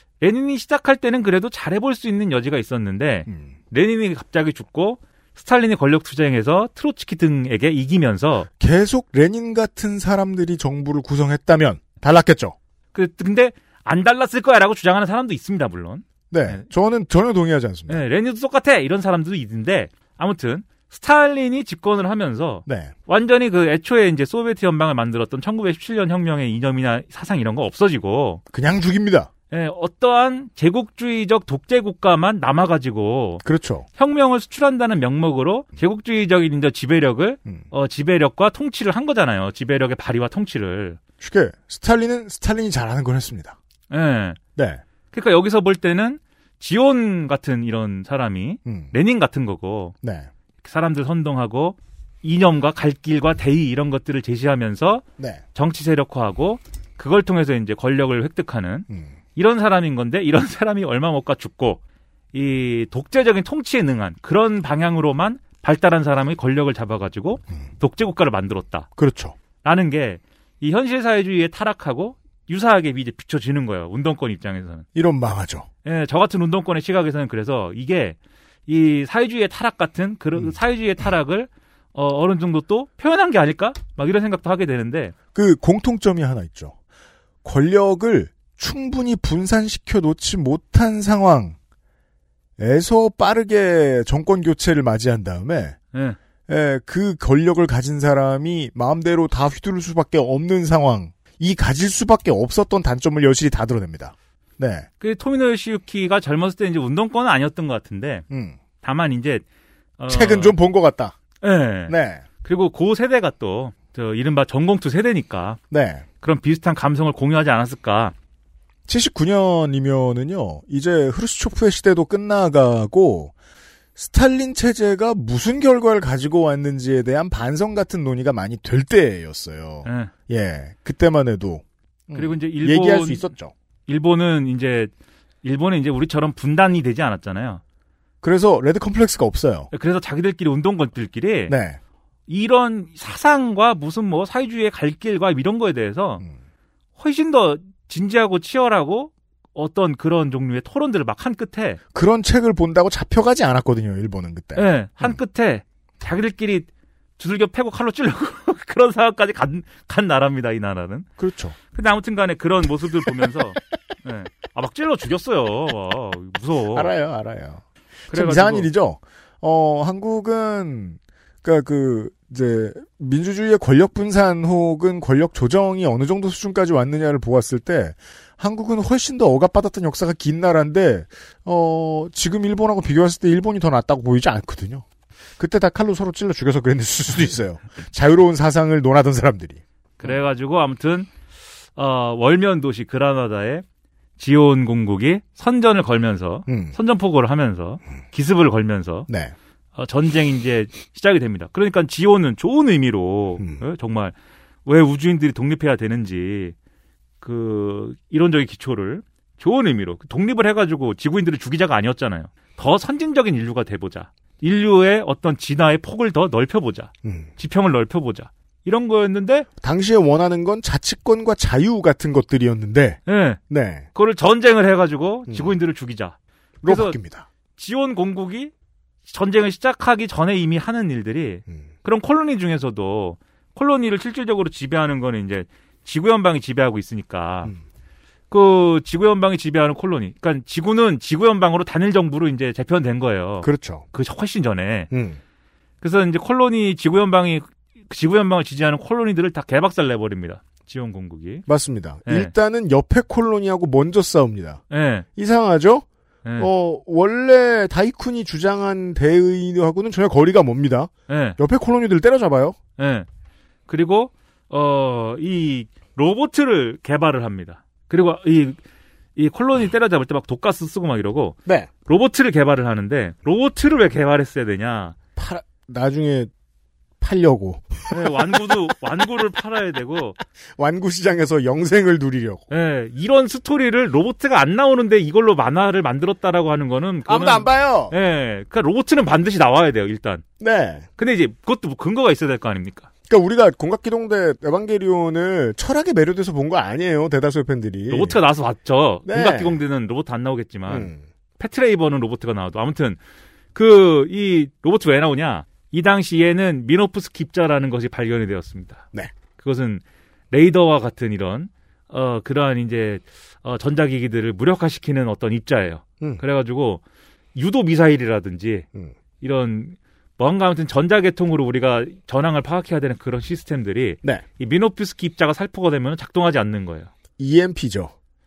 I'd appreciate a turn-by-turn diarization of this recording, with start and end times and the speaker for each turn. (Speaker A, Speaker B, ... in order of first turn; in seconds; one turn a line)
Speaker A: 0.2-8.5
Speaker B: 3.3-3.5
Speaker B: 8.6-12.6
Speaker A: 12.9-16.6
Speaker B: 16.3-18.1
Speaker A: 17.9-28.4
Speaker B: 22.7-22.9
Speaker B: 28.5-29.3
Speaker A: 29.5-33.5
Speaker B: 33.4-33.9
Speaker A: 34.0-41.0
Speaker B: 41.2-43.6
Speaker A: 43.9-44.4
Speaker B: 44.6-44.8
Speaker A: 45.1-49.9
Speaker B: 48.7-48.9
Speaker B: 50.0-50.3
Speaker A: 50.6-55.0
Speaker B: 55.2-55.4
Speaker A: 55.5-61.8
Speaker B: 58.9-59.1
Speaker A: 62.3-68.9
Speaker B: 69.0-69.4
Speaker A: 69.6-74.9
Speaker B: 75.0-75.7
Speaker A: 75.8-85.2
Speaker B: 85.3-86.8
Speaker B: 87.4-91.6
Speaker B: 92.6-95.8
Speaker B: 96.5-104.9
Speaker A: 105.0-108.2
Speaker B: 108.3-108.6
Speaker A: 108.8-109.4
Speaker A: 110.0-110.6
Speaker B: 110.1-111.2
Speaker A: 111.4-115.6
Speaker B: 111.9-112.2
Speaker B: 115.7-116.1
Speaker A: 116.2-118.1
Speaker B: 118.9-123.3
Speaker B: 124.0-133.5
Speaker A: 129.8-130.1
Speaker A: 132.1-133.3
Speaker A: 133.9-134.9
Speaker A: 135.4-137.6
Speaker B: 138.2-139.7
Speaker A: 139.7-141.6
Speaker B: 141.5-141.8
Speaker A: 142.3-146.2
Speaker A: 147.0-151.8
Speaker B: 151.9-155.2
Speaker A: 154.6-161.1
Speaker B: 161.2-161.6
Speaker A: 161.7-166.9
Speaker B: 163.1-163.3
Speaker B: 166.7-184.9
Speaker A: 168.1-168.7
Speaker B: 185.4-190.2
Speaker A: 190.0-191.1
Speaker A: 191.8-193.6
Speaker A: 194.2-199.1
Speaker B: 196.5-196.7
Speaker B: 199.1-199.3
Speaker A: 199.8-204.1
Speaker A: 204.7-206.6
Speaker A: 207.2-219.5
Speaker B: 217.0-217.3
Speaker B: 219.6-223.9
Speaker A: 223.1-223.4
Speaker A: 223.9-227.0
Speaker B: 225.3-225.6
Speaker B: 226.6-227.3
Speaker A: 227.6-228.5
Speaker A: 229.1-237.5
Speaker A: 238.3-244.9
Speaker B: 243.4-243.8
Speaker B: 244.9-245.2
Speaker A: 245.8-251.5
Speaker B: 251.5-254.6
Speaker A: 252.1-252.3
Speaker A: 254.7-255.1
Speaker B: 255.2-255.9
Speaker B: 256.4-262.6
Speaker A: 261.1-261.4
Speaker A: 262.8-263.1
Speaker A: 263.7-268.6
Speaker A: 269.2-274.9
Speaker B: 275.2-276.3
Speaker B: 277.0-278.4
Speaker A: 277.9-280.2
Speaker B: 280.6-282.4
Speaker A: 282.5-290.2
Speaker B: 287.1-287.9
Speaker B: 290.4-290.9
Speaker A: 291.0-292.9
Speaker B: 293.1-298.2
Speaker A: 297.9-303.0
Speaker B: 299.1-299.6
Speaker B: 300.7-301.0
Speaker A: 303.6-308.8
Speaker A: 309.4-316.8
Speaker A: 317.4-318.7
Speaker A: 319.2-326.9
Speaker B: 327.2-327.9